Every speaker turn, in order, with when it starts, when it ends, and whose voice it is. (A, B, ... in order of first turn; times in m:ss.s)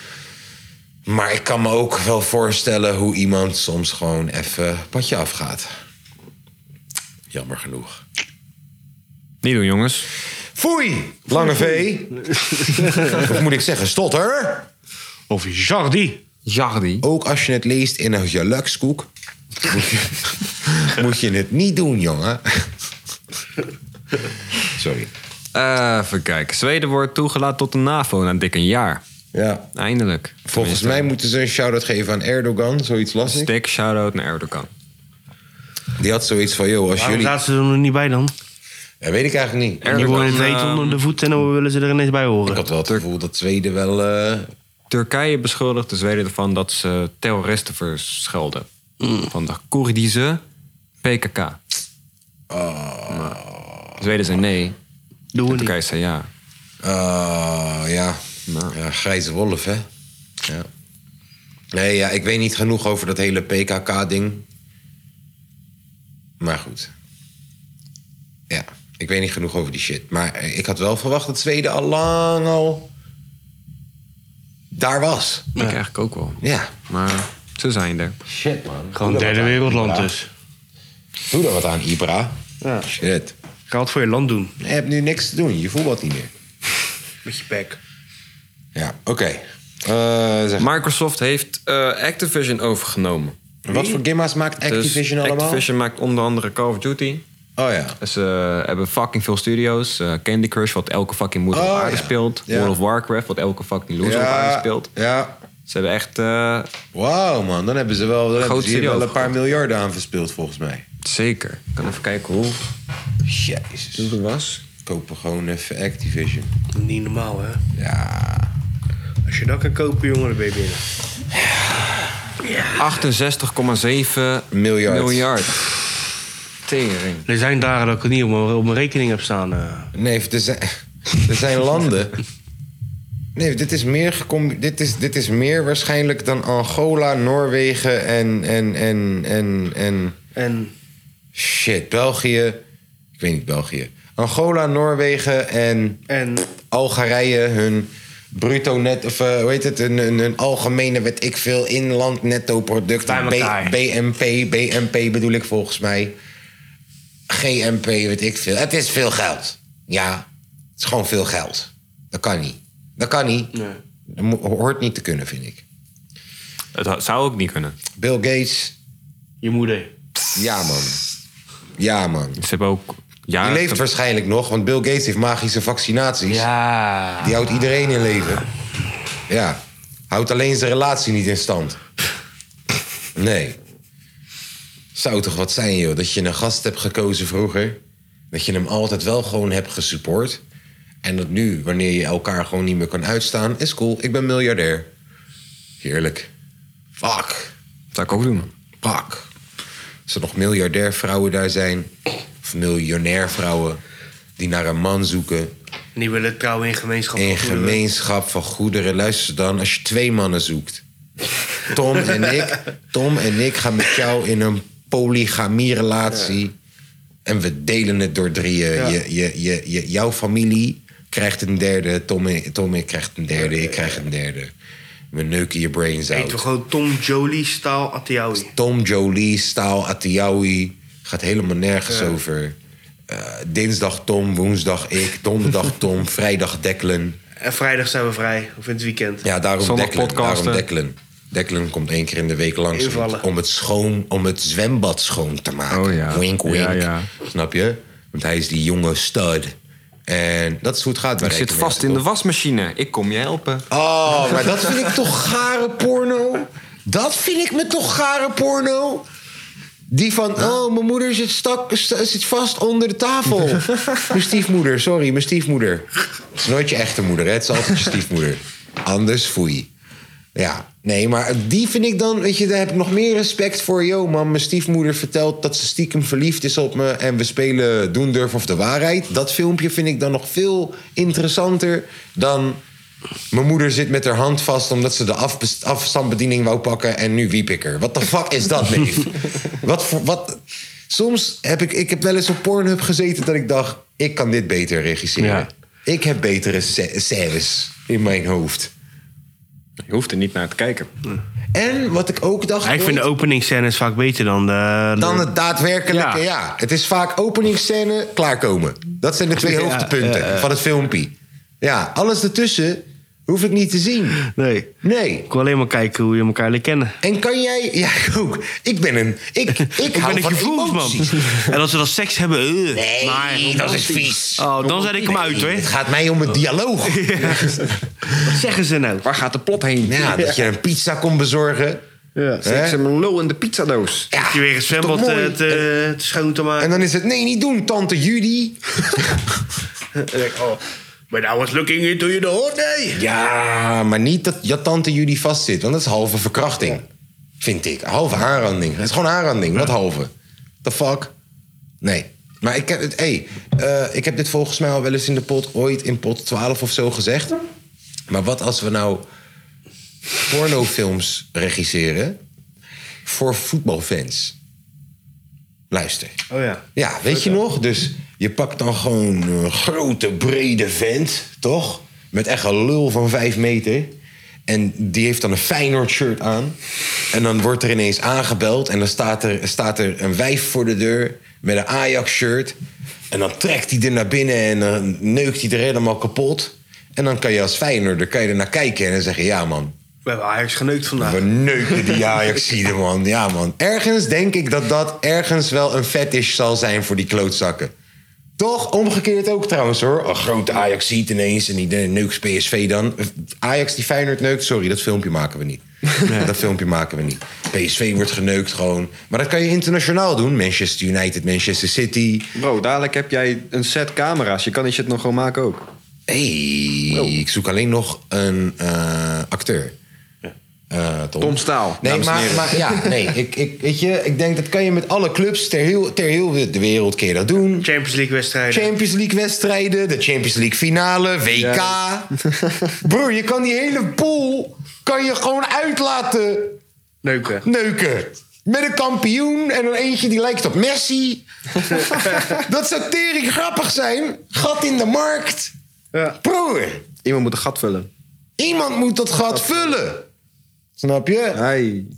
0:01.0-0:05.7 A
0:07.3-0:08.0 A
0:09.4-0:10.1 B
0:10.5-0:14.7 A
0:12.5-0:13.2 C
0:15.3-0:16.2 C
0:16.4-0:17.0 B
0:17.0-0:19.1 A
0:19.6-0:22.7 A
0:24.7-0:25.1 A
0:25.5-0:29.0 B
0:29.3-0:29.7 A
0:29.7-0:31.1 B
0:30.5-0:33.5 A
0:33.2-0:34.7 B
0:36.0-0:37.4 A
0:37.0-0:38.3 C
0:39.0-0:40.4 A
0:39.8-0:41.0 B
0:39.9-0:42.6 C
0:42.4-0:44.5 A
0:44.9-0:48.7 B
0:49.2-0:50.4 B
0:51.0-0:51.6 B
0:52.5-0:54.0 A
0:53.1-0:53.4 B
0:54.0-0:54.8 B
0:55.3-0:55.7 C
0:55.5-0:56.3 B
0:56.8-0:59.8 A
0:58.5-0:58.8 B
1:01.7-1:04.4 A
1:06.4-1:06.9 A
1:08.5-1:12.9 A
1:14.7-1:15.5 A
1:15.6-1:18.2 B
1:16.4-1:16.8 A
1:18.2-1:20.1 A
1:18.9-1:20.3 C
1:21.3-1:23.3 A
1:22.6-1:22.9 C
1:23.7-1:24.5 C
1:24.6-1:26.3 A
1:27.2-1:27.8 C
1:28.7-1:30.7 A
1:30.6-1:33.4 B
1:33.6-1:35.6 A
1:34.6-1:37.2 B
1:37.6-1:38.0 A
1:38.0-1:44.9 B
1:41.5-1:42.8 A
1:44.0-1:45.4 A
1:45.7-1:46.7 B
1:46.9-1:50.8 A
1:48.4-1:49.3 B
1:51.0-1:52.6 B
1:53.2-1:54.1 A
1:54.0-1:54.6 B
1:54.8-1:56.5 A
1:56.7-1:57.6 C
1:57.7-1:58.5 A
1:59.2-2:00.8 C
2:01.3-2:02.0 A
2:02.4-2:02.8 C
2:02.8-2:05.7 B
2:04.5-2:05.3 A
2:06.6-2:07.2 B
2:07.2-2:09.9 C
2:09.9-2:12.2 A
2:13.3-2:20.2 A
2:20.3-2:20.7 C
2:21.3-2:22.6 A
2:23.2-2:26.0 A
2:26.1-2:26.5 C
2:26.6-2:36.1 A
2:33.0-2:33.8 C
2:37.3-2:40.2 A
2:40.8-2:43.5 A
2:44.1-2:45.6 A
2:46.7-2:47.8 B
2:48.0-2:48.7 A
2:49.4-2:49.9 C
2:50.3-2:51.0 A
2:51.8-2:52.4 A
2:52.4-2:53.8 B
2:53.4-2:56.5 A
2:56.3-2:57.4 C
2:57.2-2:58.4 A
2:59.3-3:01.8 A
3:03.1-3:03.6 A
3:04.9-3:07.8 A
3:08.3-3:10.4 A
3:11.0-3:14.9 A
3:15.8-3:16.3 A
3:17.0-3:17.5 A
3:17.9-3:18.5 B
3:18.7-3:19.3 A
3:20.1-3:21.9 A
3:22.4-3:23.8 A
3:24.4-3:25.5 A
3:25.9-3:27.8 C
3:27.2-3:30.8 A
3:31.6-3:36.5 A
3:37.2-3:44.5 A
3:43.6-3:43.9 C
3:45.1-3:46.4 A
3:46.1-3:48.5 C
3:48.5-3:52.6 A
3:51.9-3:52.2 C
3:53.1-3:57.2 A
3:57.4-3:59.2 C
3:59.2-4:09.5 A
3:59.6-4:00.6 B
4:02.7-4:03.2 C
4:05.7-4:07.1 B
4:10.1-4:12.0 A
4:11.2-4:13.7 B
4:13.7-4:19.0 A
4:19.9-4:29.7 A
4:30.3-4:42.6 A
4:43.3-4:58.7 A
4:55.2-4:55.5 C
4:59.9-5:00.9 B
5:01.5-5:03.1 A
5:02.6-5:05.3 C
5:05.0-5:14.2 A
5:05.9-5:06.2 C
5:09.4-5:10.5 C
5:14.2-5:14.7 C
5:14.8-5:15.3 A
5:15.3-5:17.0 C
5:17.0-5:21.4 A
5:19.6-5:23.8 C
5:22.7-5:27.7 A
5:23.6-5:25.2 B
5:24.4-5:25.7 C
5:26.8-5:27.6 C
5:28.2-5:29.0 C
5:29.0-5:30.2 B
5:29.8-5:31.8 A
5:32.2-5:32.4 C
5:32.4-5:32.8 A
5:32.4-5:34.1 B
5:34.1-5:35.6 A
5:34.3-5:36.8 C
5:36.6-5:39.2 A
5:39.9-5:43.0 C
5:42.9-5:46.8 A
5:47.4-5:50.1 A
5:50.6-5:51.1 A
5:51.8-5:57.4 A
5:58.1-5:59.0 A
6:00.2-6:02.2 A
6:03.0-6:04.4 A
6:05.7-6:06.2 A
6:06.3-6:06.6 C
6:06.7-6:13.9 A
6:14.5-6:16.6 A
6:17.1-6:22.6 A
6:23.1-6:29.7 A
6:30.0-6:32.0 C
6:31.0-6:37.7 A
6:38.4-6:52.3 A
6:46.0-6:46.3 C
6:52.3-6:55.7 B
6:56.1-6:59.8 A
7:00.7-7:07.7 A
7:01.2-7:03.1 B
7:07.6-7:08.7 C
7:08.5-7:12.1 A
7:11.3-7:12.8 B
7:12.8-7:16.6 A
7:17.0-7:17.4 C
7:17.4-7:21.2 A
7:21.8-7:25.5 A
7:26.2-7:26.9 A
7:27.0-7:27.9 B
7:28.4-7:30.0 A
7:29.3-7:29.7 B
7:30.8-7:31.4 A
7:31.3-7:31.9 B